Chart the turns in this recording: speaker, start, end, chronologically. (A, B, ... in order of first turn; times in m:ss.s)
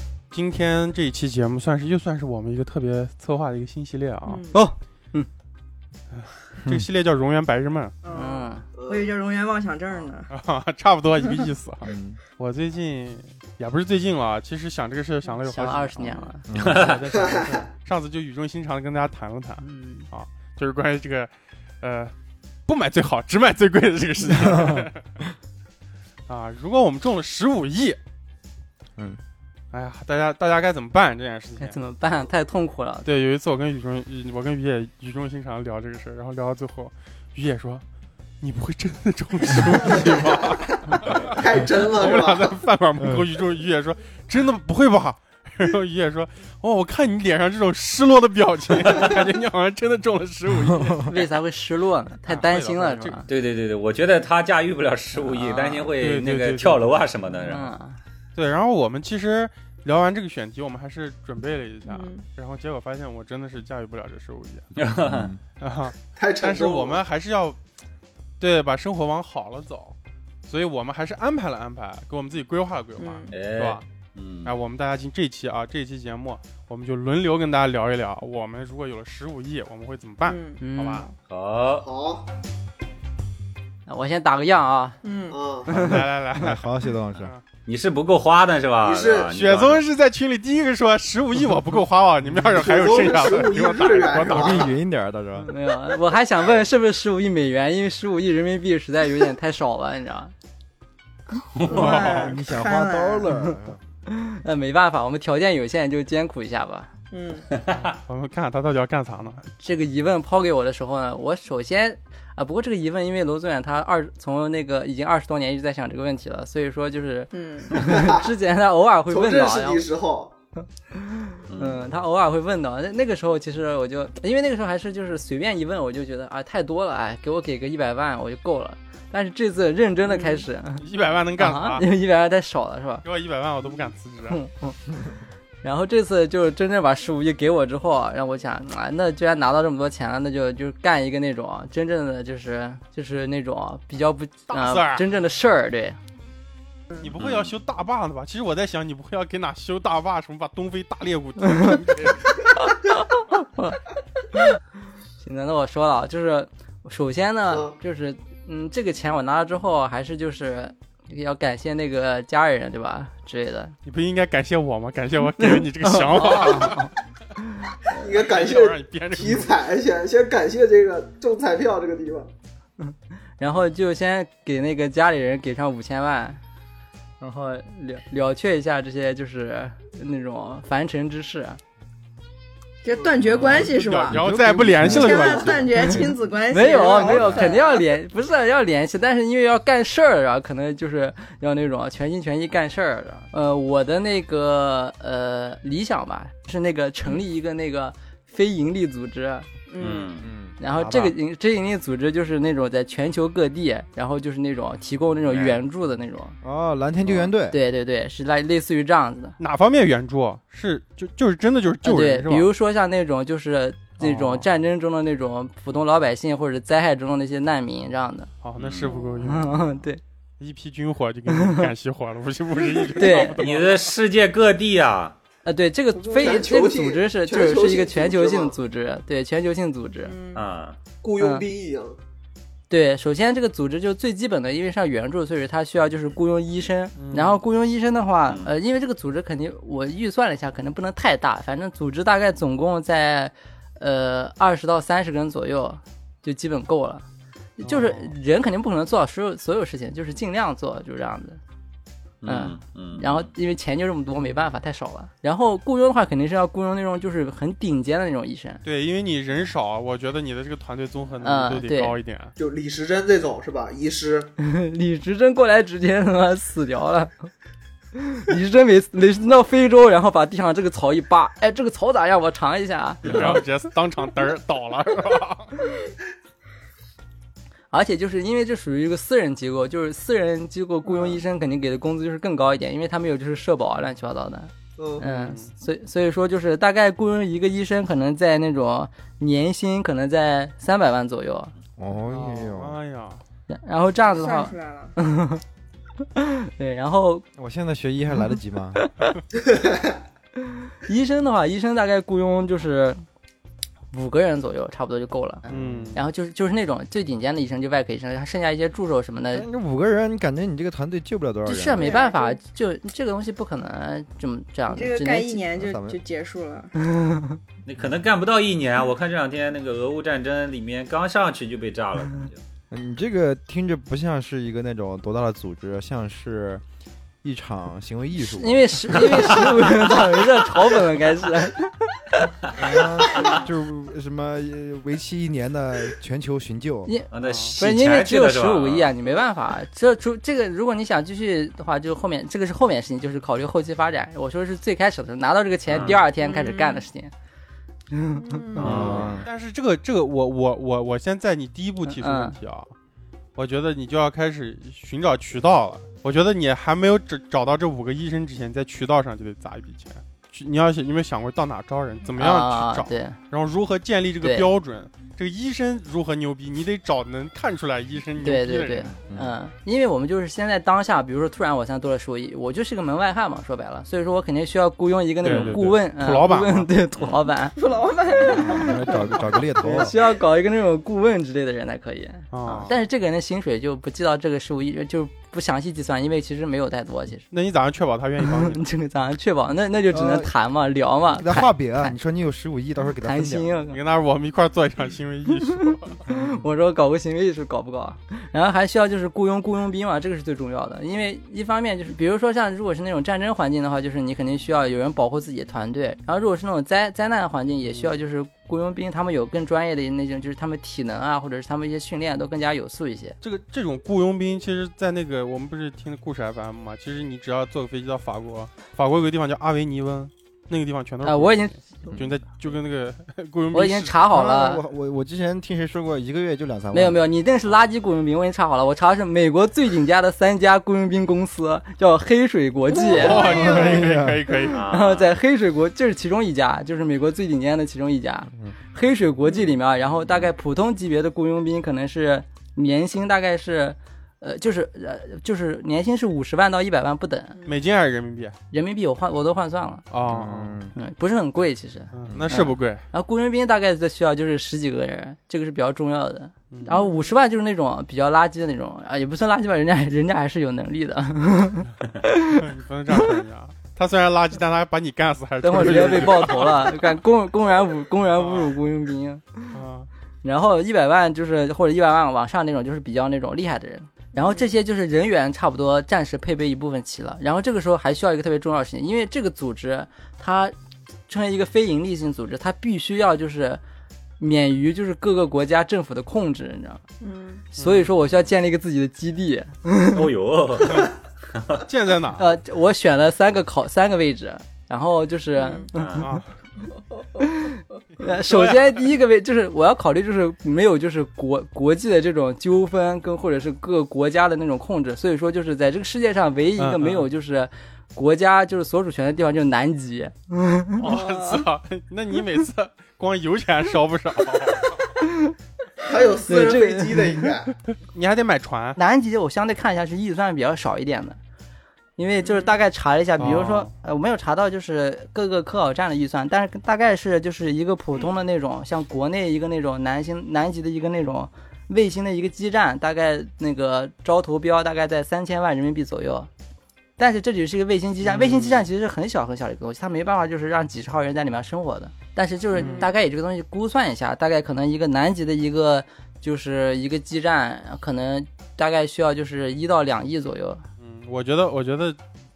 0:00.3-0:04.4 A
0:04.2-0:04.6 B
0:04.5-0:05.3 C
0:06.1-0:08.2 A
0:08.0-0:10.3 B
0:08.1-0:08.6 C
0:08.8-0:09.1 D
0:10.3-0:22.1 A
0:11.2-0:11.5 B
0:11.8-0:12.2 E
0:15.4-0:16.4 C
0:16.0-0:16.3 B
0:16.5-0:17.0 E
0:16.6-0:17.0 F
0:17.1-0:17.6 D
0:19.6-0:20.1 C
0:22.7-0:25.0 A
0:24.3-0:24.9 E
0:26.3-0:28.0 A
0:29.7-0:31.8 A
0:31.6-0:33.1 C
0:33.0-0:37.8 A
0:38.4-0:51.2 A
0:39.8-0:40.5 D
0:41.0-0:42.6 D
0:43.0-0:43.3 E
0:48.8-0:49.2 F
0:50.7-0:51.0 E
0:51.1-0:53.3 C
0:52.3-0:53.2 A
0:53.3-0:57.7 F
0:55.2-0:55.9 C
0:56.0-0:57.0 A
0:57.4-0:58.0 C
0:58.4-1:04.7 A
1:01.9-1:02.2 B
1:04.8-1:05.3 F
1:05.0-1:05.4 E
1:05.6-1:07.6 A
1:06.2-1:07.0 D
1:08.4-1:10.0 A
1:10.5-1:13.8 A
1:13.0-1:13.3 B
1:13.3-1:14.5 F
1:14.4-1:21.0 A
1:20.2-1:21.2 B
1:20.6-1:21.0 C
1:21.3-1:21.9 F
1:21.8-1:22.3 D
1:23.9-1:25.0 C
1:25.0-1:25.4 B
1:25.3-1:25.7 D
1:25.7-1:26.0 C
1:25.7-1:27.4 A
1:25.8-1:27.3 E
1:27.7-1:29.8 F
1:28.8-1:29.3 D
1:29.3-1:34.7 A
1:32.5-1:34.7 D
1:34.3-1:35.5 E
1:35.5-1:40.3 C
1:41.6-1:41.8 F
1:41.7-1:43.4 B
1:41.7-1:42.4 A
1:42.0-1:43.8 E
1:44.1-1:46.9 C
1:47.1-1:47.5 B
1:47.5-1:48.0 F
1:47.8-1:49.4 A
1:49.6-1:59.8 C
1:57.3-1:57.8 B
1:57.8-1:58.3 D
1:59.1-2:00.3 D
2:00.9-2:10.8 C
2:01.5-2:01.8 F
2:10.1-2:10.4 B
2:10.8-2:11.8 A
2:11.4-2:13.0 C
2:13.0-2:14.4 A
2:14.3-2:14.8 C
2:15.6-2:26.0 C
2:24.5-2:25.1 A
2:27.0-2:32.5 A
2:27.2-2:27.5 F
2:31.5-2:31.7 C
2:32.6-2:33.8 C
2:35.2-2:43.7 C
2:37.5-2:37.8 D
2:43.8-2:46.9 A
2:45.4-2:46.9 C
2:47.9-2:52.3 D
2:47.9-2:49.5 A
2:52.8-2:56.4 C
2:57.2-3:01.6 C
3:02.8-3:04.2 B
3:03.3-3:06.3 E
3:03.4-3:05.7 A
3:04.8-3:07.9 B
3:05.8-3:19.5 C
3:07.0-3:07.5 E
3:19.7-3:20.2 B
3:19.8-3:20.3 F
3:20.2-3:20.6 E
3:20.6-3:26.4 C
3:20.7-3:21.2 A
3:25.3-3:25.6 F
3:26.4-3:27.6 E
3:27.1-3:29.4 C
3:29.4-3:32.5 A
3:31.8-3:38.3 C
3:34.0-3:34.4 A
3:38.4-3:39.8 A
3:38.6-3:39.0 F
3:39.2-3:40.0 C
3:40.4-3:43.9 A
3:41.4-3:41.7 C
3:43.0-3:43.4 C
3:43.1-3:45.2 F
3:45.4-3:50.1 C
3:45.9-3:46.6 B
3:46.2-3:48.6 D
3:50.0-3:50.4 B
3:50.3-3:50.8 F
3:51.0-3:52.0 D
3:51.2-3:51.5 C
3:52.7-4:07.0 C
3:57.0-3:57.4 A
3:58.3-3:58.5 F
4:07.6-4:11.4 C
4:07.6-4:08.2 A
4:12.2-4:13.3 F
4:12.3-4:18.6 C
4:18.6-4:22.3 A
4:21.2-4:22.0 C
4:22.4-4:24.3 D
4:24.4-4:27.1 C
4:28.0-4:33.4 C
4:33.0-4:35.5 A
4:37.7-4:51.5 C
4:44.8-4:45.0 D
4:45.0-4:45.5 A
4:51.8-4:52.8 E
4:52.1-4:53.2 A
4:53.5-4:55.4 C
4:54.1-4:54.9 B
4:56.1-4:57.2 C
4:57.4-4:58.8 E
4:58.8-4:59.2 C
5:00.8-5:03.0 C
5:03.9-5:09.5 C
5:05.5-5:06.0 E
5:05.5-5:06.0 A
5:09.3-5:11.9 E
5:11.4-5:15.4 C
5:11.7-5:12.4 B
5:14.7-5:16.7 B
5:15.5-5:16.0 E
5:16.9-5:17.4 C
5:17.7-5:22.4 F
5:22.7-5:26.6 E
5:27.2-5:29.8 E
5:28.2-5:32.3 C
5:29.0-5:29.6 F
5:32.6-5:36.9 E
5:36.9-5:47.1 C
5:37.1-5:39.0 F
5:37.2-5:37.6 A
5:45.7-5:46.0 F
5:46.2-5:46.9 B
5:47.9-5:49.0 C
5:48.2-5:48.7 B
5:48.6-5:49.2 F
5:48.6-5:52.7 A
5:48.6-5:49.3 E
5:51.8-5:52.4 C
5:53.4-6:09.0 A
6:02.2-6:03.2 C
6:04.2-6:04.5 C
6:08.2-6:17.6 C
6:09.1-6:09.4 E
6:15.2-6:16.7 A
6:15.3-6:15.6 F
6:17.0-6:17.2 F
6:17.6-6:20.1 B
6:18.3-6:19.9 E
6:18.3-6:18.7 C
6:19.6-6:27.3 C
6:22.3-6:22.8 A
6:27.3-6:28.6 A
6:28.4-6:32.0 C
6:29.9-6:30.3 E
6:31.1-6:33.6 E
6:33.0-6:33.8 C
6:33.7-6:36.0 A
6:35.5-6:53.2 C
6:47.7-6:47.9 A
6:53.2-7:04.0 A
7:01.0-7:01.6 C
7:03.5-7:04.6 C
7:04.1-7:07.0 E
7:06.7-7:13.8 C
7:12.9-7:14.6 A
7:13.0-7:13.6 B
7:13.3-7:14.3 E
7:14.5-7:15.2 F
7:14.7-7:27.4 C
7:27.3-7:27.6 B
7:27.4-7:28.4 A
7:28.5-7:29.8 C
7:29.9-7:30.6 A
7:30.0-7:30.8 E
7:30.8-7:42.4 C
7:31.9-7:32.8 A
7:32.1-7:32.3 E
7:36.5-7:36.8 A
7:36.7-7:37.1 B
7:42.3-7:46.9 A
7:45.4-7:49.4 C
7:48.2-7:48.6 A
7:49.5-7:49.9 A
7:50.2-8:00.5 C
7:54.2-7:54.6 B
8:01.1-8:03.6 C
8:04.2-8:06.8 C
8:07.0-8:07.5 B
8:07.6-8:10.1 C
8:07.6-8:07.9 A
8:09.9-8:11.7 F
8:11.6-8:12.3 A
8:12.2-8:16.2 C
8:15.4-8:15.7 B
8:15.8-8:16.2 F
8:16.0-8:16.3 A
8:17.2-8:30.9 C
8:18.0-8:18.9 A
8:26.6-8:27.1 A
8:30.8-8:34.9 A
8:30.8-8:31.4 B
8:35.0-8:35.3 C
8:35.8-8:37.6 D
8:36.3-8:37.3 C
8:37.9-8:38.8 A
8:38.8-8:41.2 C
8:42.0-8:56.3 C
8:42.2-8:42.6 B
8:43.2-8:43.7 A
8:57.0-9:10.6 C
8:58.0-8:58.6 A
9:02.6-9:02.9 A
9:02.6-9:02.9 B
9:10.8-9:12.0 A